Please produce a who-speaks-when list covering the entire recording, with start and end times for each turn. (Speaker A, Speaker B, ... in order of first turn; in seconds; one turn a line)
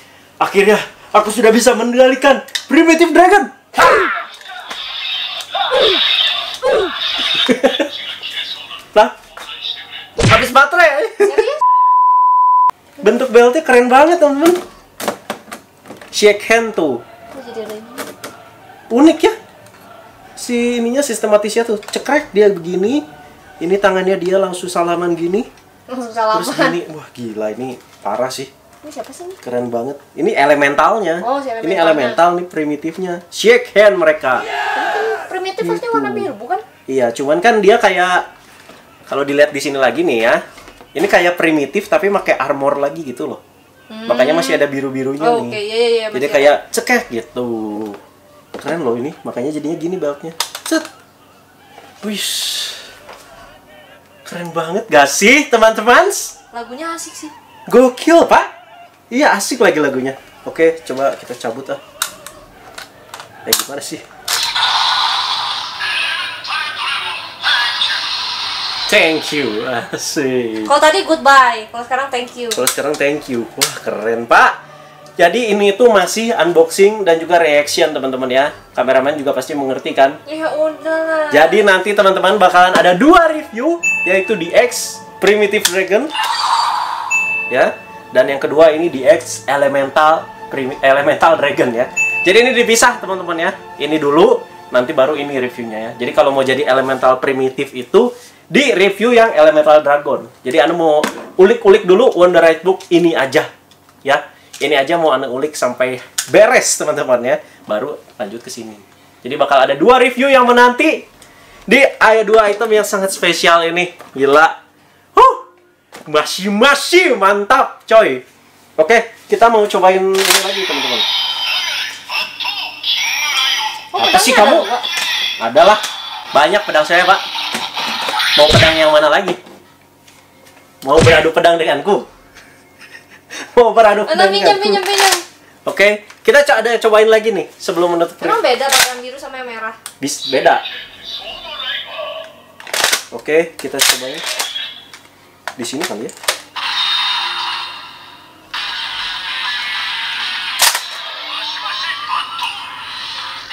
Speaker A: 0.4-4.1
Speaker A: 7.3-7.9
Speaker A: 10.3-11.5
Speaker B: 11.3-11.6
Speaker A: 13.0-14.6
Speaker A: 16.1-17.0
Speaker B: 17.3-18.1
Speaker A: 18.9-19.3
Speaker A: 20.4-23.0
Speaker A: 23.6-25.5
Speaker B: 25.9-26.8
Speaker A: 26.3-28.5
Speaker B: 28.8-29.4
Speaker A: 29.4-34.5
Speaker B: 31.2-32.2
Speaker B: 34.7-36.6
Speaker A: 35.6-36.3
Speaker A: 36.9-38.3
Speaker A: 39.1-40.4
Speaker A: 40.9-43.4
Speaker B: 43.9-44.6
Speaker A: 44.1-45.6
Speaker B: 45.2-46.5
Speaker A: 46.1-48.0
Speaker A: 48.6-50.9
Speaker A: 52.0-52.9
Speaker A: 54.2-56.3
Speaker B: 56.5-57.3
Speaker A: 57.7-58.5
Speaker A: 59.1-61.8
Speaker A: 63.5-64.0
Speaker A: 68.9-70.7
Speaker B: 70.7-72.6
Speaker A: 72.5-74.5
Speaker A: 75.2-80.2
Speaker B: 80.2-81.7
Speaker A: 81.3-86.1
Speaker A: 87.5-103.5
Speaker A: 104.0-111.0
Speaker A: 111.7-114.5
Speaker A: 115.1-115.4
Speaker A: 116.1-118.2
Speaker A: 118.8-121.1
Speaker B: 123.9-124.8
Speaker A: 124.0-124.7
Speaker A: 125.4-125.8
Speaker A: 126.3-127.2
Speaker A: 128.3-129.4
Speaker A: 130.8-132.1
Speaker A: 133.5-134.8
Speaker B: 134.1-135.2
Speaker A: 135.7-138.4
Speaker B: 138.2-139.8
Speaker A: 140.0-140.6
Speaker A: 143.1-144.2
Speaker A: 145.6-146.1